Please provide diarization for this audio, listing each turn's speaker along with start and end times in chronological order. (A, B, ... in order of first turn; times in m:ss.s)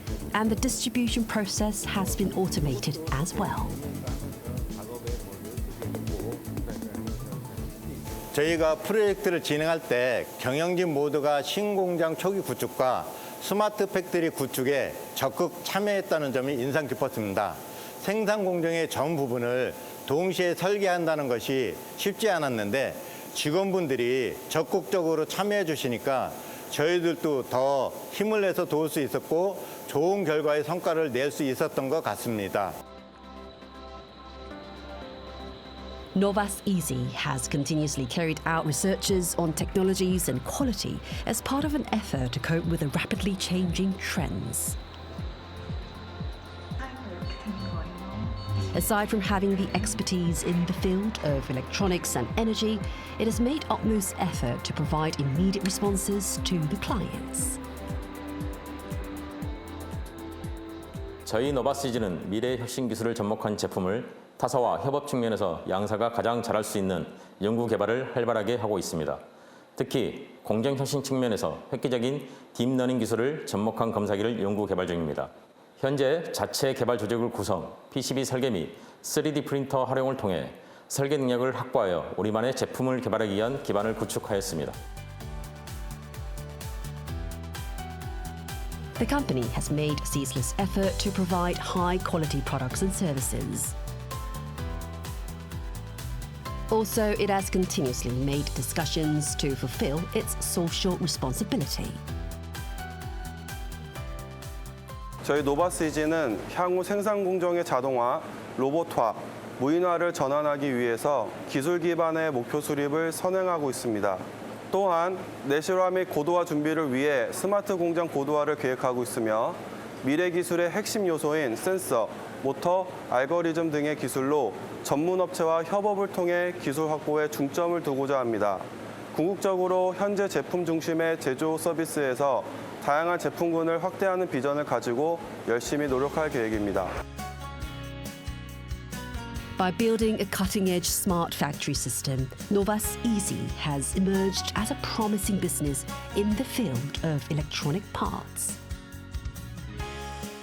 0:00.3-0:03.8 A
0:08.3-0:32.8 B
0:36.2-0:44.8 A
0:48.7-0:57.6 A
1:01.3-1:09.2 C
1:09.8-1:24.8 C
1:29.0-1:33.8 A
1:36.7-1:42.0 A
1:45.2-1:54.2 D
1:54.7-2:08.6 D
2:09.2-2:16.9 D
2:19.6-2:28.6 A